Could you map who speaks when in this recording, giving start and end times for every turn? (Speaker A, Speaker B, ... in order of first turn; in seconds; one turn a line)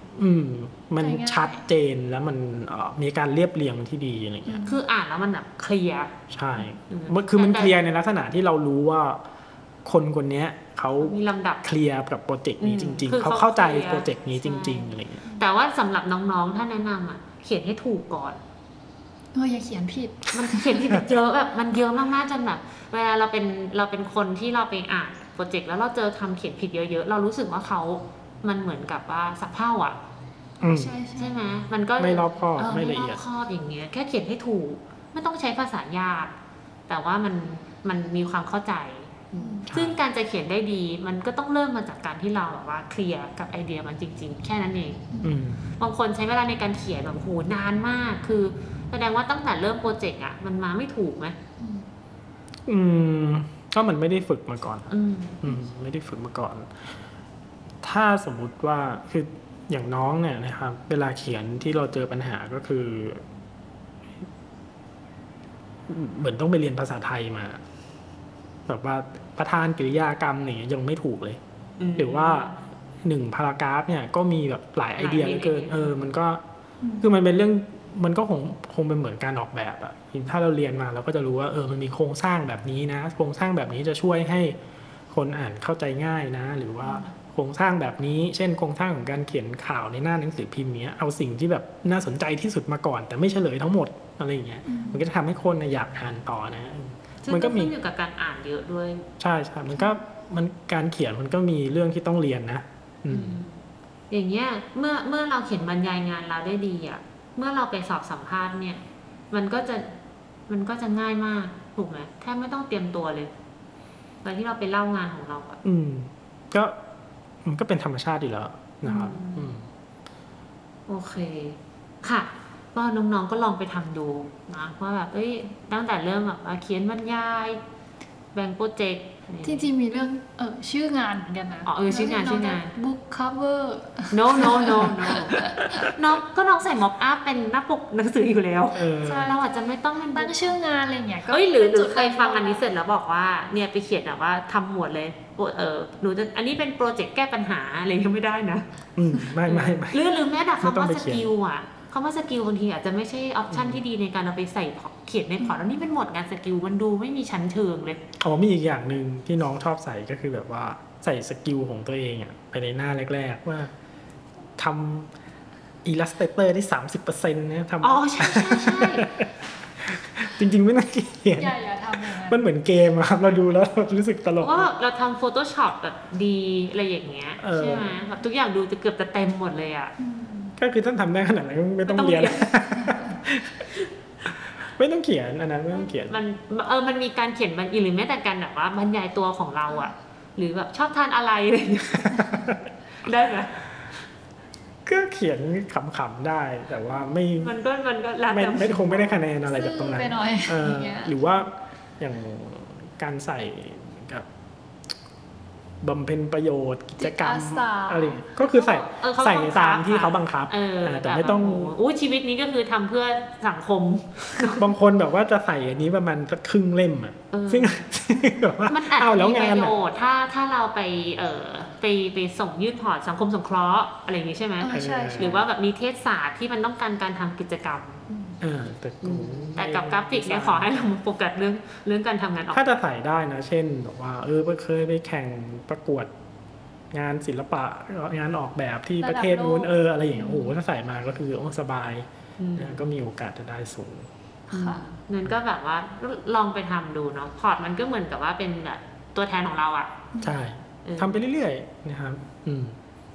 Speaker A: 0.1-4.8
Speaker B: 1.0-1.6
Speaker B: 4.5-4.8
Speaker C: 4.6-6.1
Speaker A: 6.3-9.2
Speaker C: 6.9-7.7
Speaker A: 9.8-15.2
Speaker C: 11.0-11.6
Speaker C: 12.6-18.4
Speaker B: 19.3-20.9
Speaker C: 20.3-30.0
Speaker A: 30.6-30.9
Speaker B: 30.6-31.4
Speaker C: 31.1-36.3
Speaker A: 32.0-33.2
Speaker C: 36.9-45.0
Speaker B: 39.3-39.7
Speaker A: 39.7-40.0
Speaker A: 45.2-45.6
Speaker C: 45.8-51.4
Speaker B: 51.6-51.9
Speaker A: 52.6-54.9
Speaker C: 54.9-55.4
Speaker A: 55.4-56.8
Speaker A: 57.8-63.2
Speaker A: 65.9-67.6
Speaker A: 68.7-71.4
Speaker C: 71.8-72.5
Speaker A: 72.0-72.5
Speaker A: 73.0-76.4
Speaker C: 75.0-76.0
Speaker B: 76.8-77.1
Speaker A: 77.0-84.5
Speaker A: 85.1-97.7
Speaker B: 94.7-95.0
Speaker C: 97.2-99.0
Speaker A: 99.2-103.4
Speaker B: 99.8-100.0
Speaker C: 103.1-109.9
Speaker C: 110.5-113.3
Speaker C: 114.2-115.6
Speaker A: 115.6-116.7
Speaker A: 117.4-119.7
Speaker C: 118.8-119.5
Speaker C: 120.9-127.6
Speaker C: 128.3-129.7
Speaker B: 129.4-135.6
Speaker C: 131.6-132.7
Speaker C: 134.1-140.5
Speaker A: 138.7-139.3
Speaker B: 139.0-139.5
Speaker B: 140.1-142.6
Speaker C: 141.3-148.7
Speaker A: 148.9-150.0
Speaker C: 149.4-158.0
Speaker A: 150.6-151.3
Speaker A: 153.5-153.8
Speaker A: 158.2-163.7
Speaker A: 164.6-165.1
Speaker A: 165.8-169.3
Speaker C: 167.8-169.1
Speaker A: 169.8-174.7
Speaker B: 171.3-172.4
Speaker C: 174.4-179.9
Speaker A: 177.4-178.0
Speaker B: 180.0-180.6
Speaker A: 180.6-183.7
Speaker C: 181.8-182.9
Speaker B: 182.8-183.1
Speaker A: 184.6-186.2
Speaker C: 185.8-193.6
Speaker A: 192.2-192.6
Speaker A: 194.8-197.5
Speaker C: 197.4-199.2
Speaker A: 198.3-204.2
Speaker B: 199.4-201.3
Speaker A: 205.8-211.7
Speaker B: 207.0-208.3
Speaker C: 208.4-214.7
Speaker A: 214.6-219.7
Speaker C: 217.3-217.8
Speaker C: 218.7-228.0
Speaker B: 224.6-225.4
Speaker A: 224.7-225.4
Speaker B: 228.1-228.4
Speaker A: 228.4-230.8
Speaker C: 229.0-232.6
Speaker A: 232.5-236.1
Speaker A: 236.9-244.1
Speaker B: 239.0-239.7
Speaker C: 242.4-242.8
Speaker B: 244.5-244.8
Speaker C: 244.5-249.9
Speaker B: 250.1-250.4
Speaker A: 250.2-252.8
Speaker C: 250.8-251.2